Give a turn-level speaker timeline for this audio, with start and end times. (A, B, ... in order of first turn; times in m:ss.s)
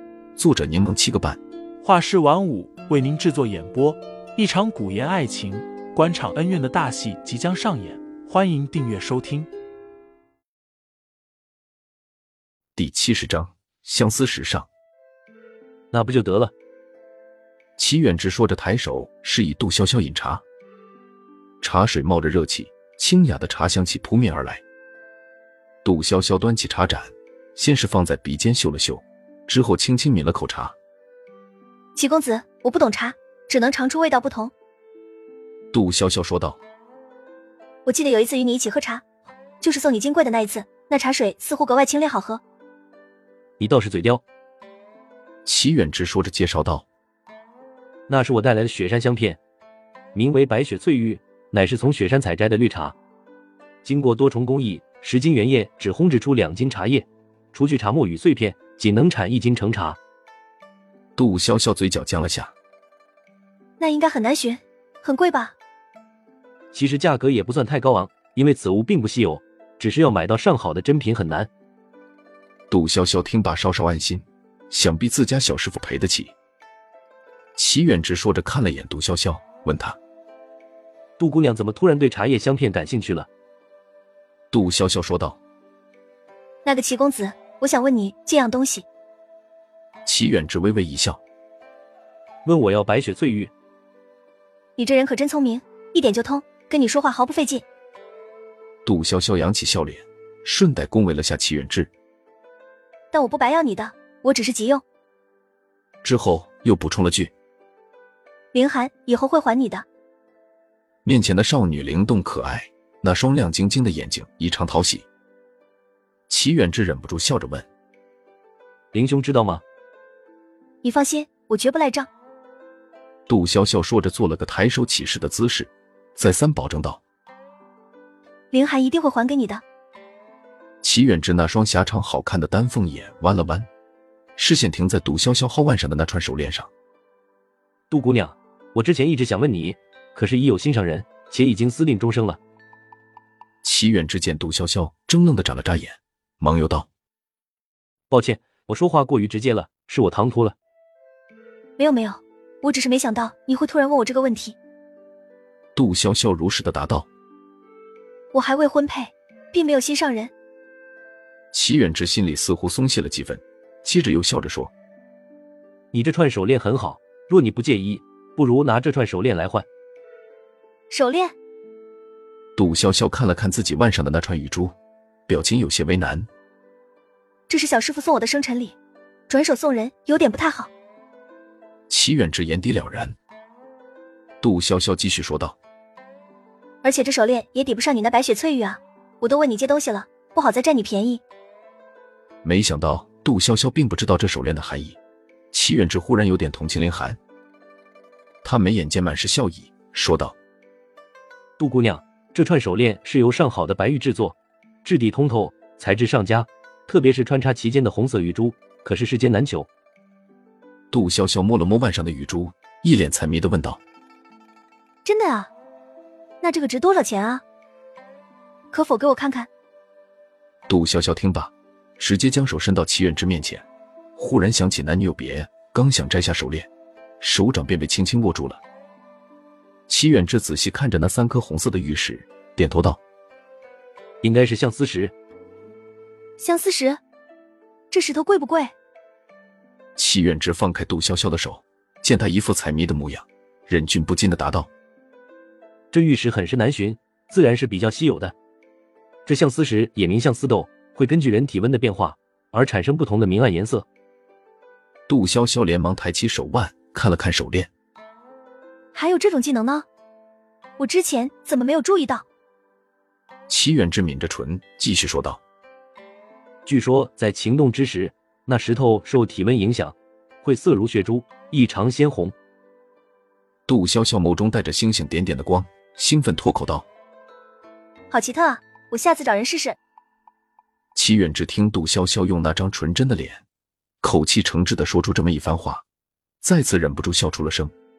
0:00.4-0:01.4 A
0:01.8-0:09.5 B
0:12.8-0:14.7 A
0:15.9-0:16.5 C
0:17.8-0:20.4 A
0:21.6-0:24.6 A
0:25.8-0:30.8 A
0:32.0-0:34.5 D
0:35.7-0:36.6 A
0:37.8-0:39.0 D
0:39.6-0:42.4 D
0:43.6-0:44.2 C
0:45.4-0:46.8 A
0:48.1-0:49.4 C
0:50.1-0:52.9 C
0:53.8-1:00.0 C
1:01.2-1:02.5 A
1:03.8-1:05.5 D
1:06.7-1:11.5 C
1:12.7-1:16.3 A
1:17.6-1:20.0 A
1:21.2-1:23.3 C
1:24.5-1:25.4 A
1:26.6-1:28.8 D
1:30.0-1:31.2 A
1:32.4-1:33.5 C
1:34.8-1:37.6 D
1:38.8-1:41.9 A
1:43.1-1:44.8 D
1:46.0-1:47.3 A
1:48.5-1:49.8 D
1:51.0-1:55.1 A
1:56.3-1:57.7 A
1:58.9-1:59.6 C
2:00.8-2:02.1 D
2:03.3-2:07.0 A
2:08.5-2:09.6 D
2:10.8-2:13.7 A
2:14.4-2:16.7 A
2:17.9-2:22.4 C
2:23.6-2:26.9 A
2:28.1-2:30.5 C
2:31.8-2:34.5 D
2:35.7-2:37.1 A
2:38.3-2:40.3 D
2:41.5-2:44.7 A
2:45.9-2:49.6 C
2:50.9-2:51.3 D
2:52.6-2:54.7 A
2:55.3-2:56.3 A
2:57.5-2:58.7 D
2:59.3-3:00.7 D
3:01.9-3:03.2 A
3:04.4-3:05.6 A
3:06.8-3:11.2 D
3:12.4-3:15.0 A
3:15.5-3:17.2 A
3:18.4-3:20.4 A
3:21.6-3:29.7 C
3:30.9-3:33.8 A
3:35.0-3:35.5 D
3:36.4-3:37.4 D
3:38.7-3:39.5 D
3:40.7-3:46.7 A
3:47.2-3:48.6 A
3:49.9-3:53.0 A
3:54.2-3:55.1 C
3:56.4-3:57.0 D
3:57.9-3:58.7 D
4:00.0-4:04.7 A
4:05.9-4:08.3 C
4:09.2-4:13.8 C
4:15.1-4:17.7 A
4:18.9-4:19.8 D
4:20.8-4:22.2 D
4:23.5-4:25.4 A
4:26.6-4:32.3 C
4:33.7-4:36.9 A
4:38.1-4:39.8 D
4:40.9-4:43.4 A
4:44.0-4:45.8 A
4:46.4-4:47.7 A